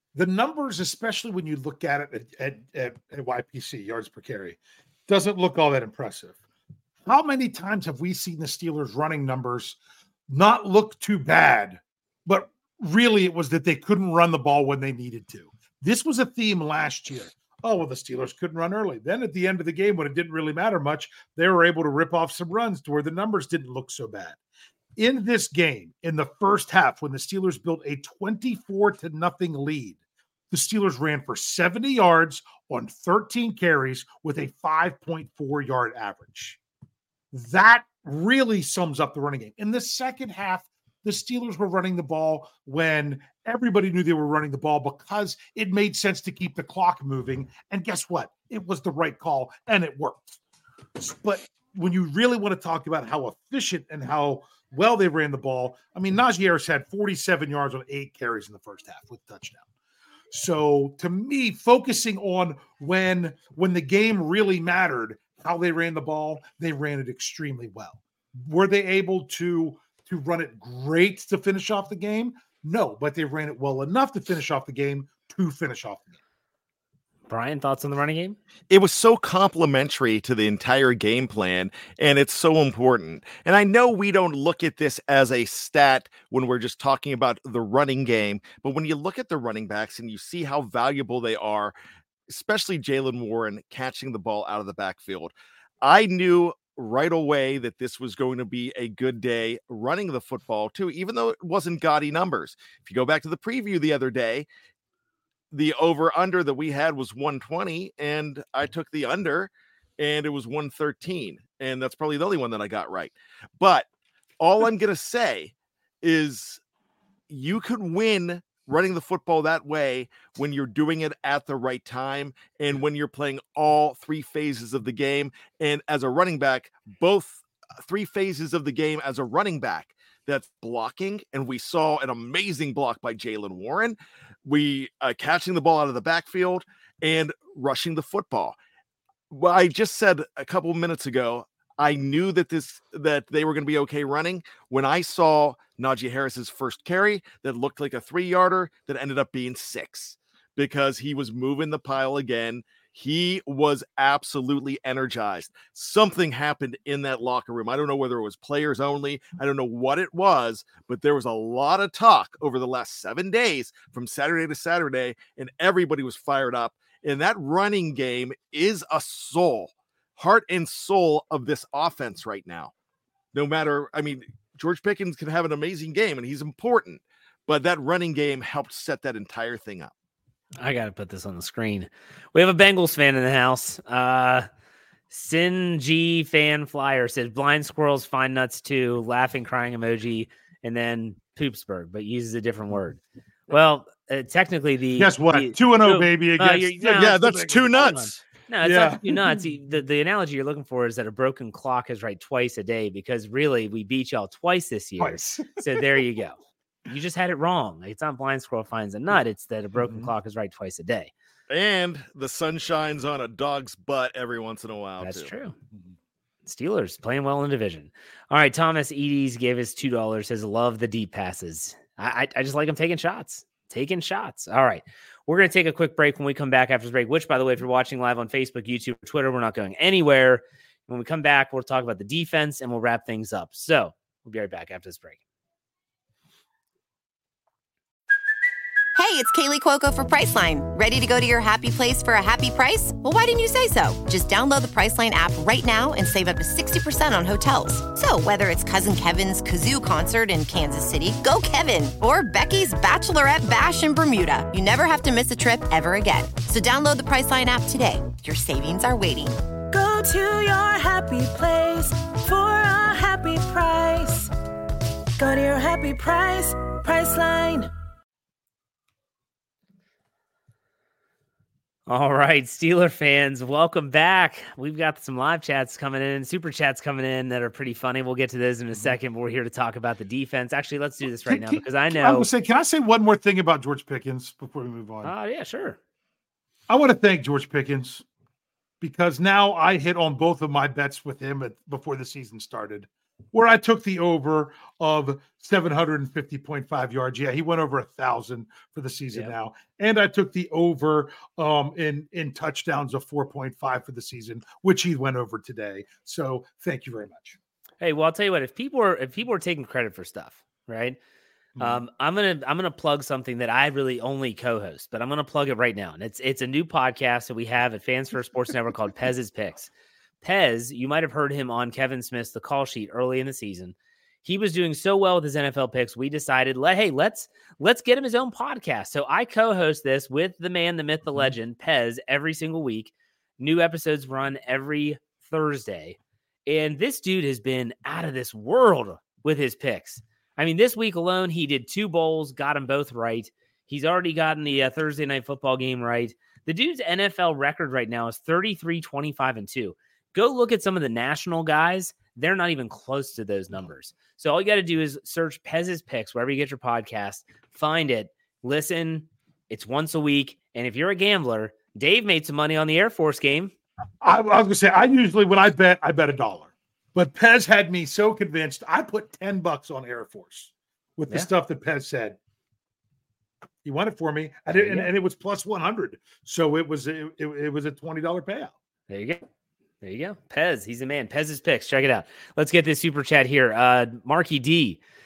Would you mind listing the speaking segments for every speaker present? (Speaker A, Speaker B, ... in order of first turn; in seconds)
Speaker A: 0.1-6.4, 7.0-9.8, 10.3-24.4, 25.0-30.0, 30.5-36.6, 37.3-50.4, 51.0-59.6, 60.3-76.2, 195.0-198.1, 198.6-199.4, 205.0-205.9, 209.8-210.1, 281.2-285.1, 286.7-288.0, 288.8-307.4, 311.6-311.8, 364.0-372.2, 373.6-378.5
Speaker B: 77.3-78.4, 180.6-184.5, 185.1-211.1, 215.0-215.6, 216.5-235.2, 271.9-282.3, 285.0-285.8, 307.8-311.0, 311.6-319.7, 320.2-363.5, 374.5-374.9, 378.9-379.2, 379.8-384.8
Speaker C: 78.7-91.8, 92.3-104.5, 105.5-113.9, 114.4-116.6, 117.3-138.6, 139.3-172.7, 173.3-179.9, 196.9-198.2, 211.5-215.3
Speaker D: 238.9-259.4
Speaker E: 259.7-264.3, 265.2-267.7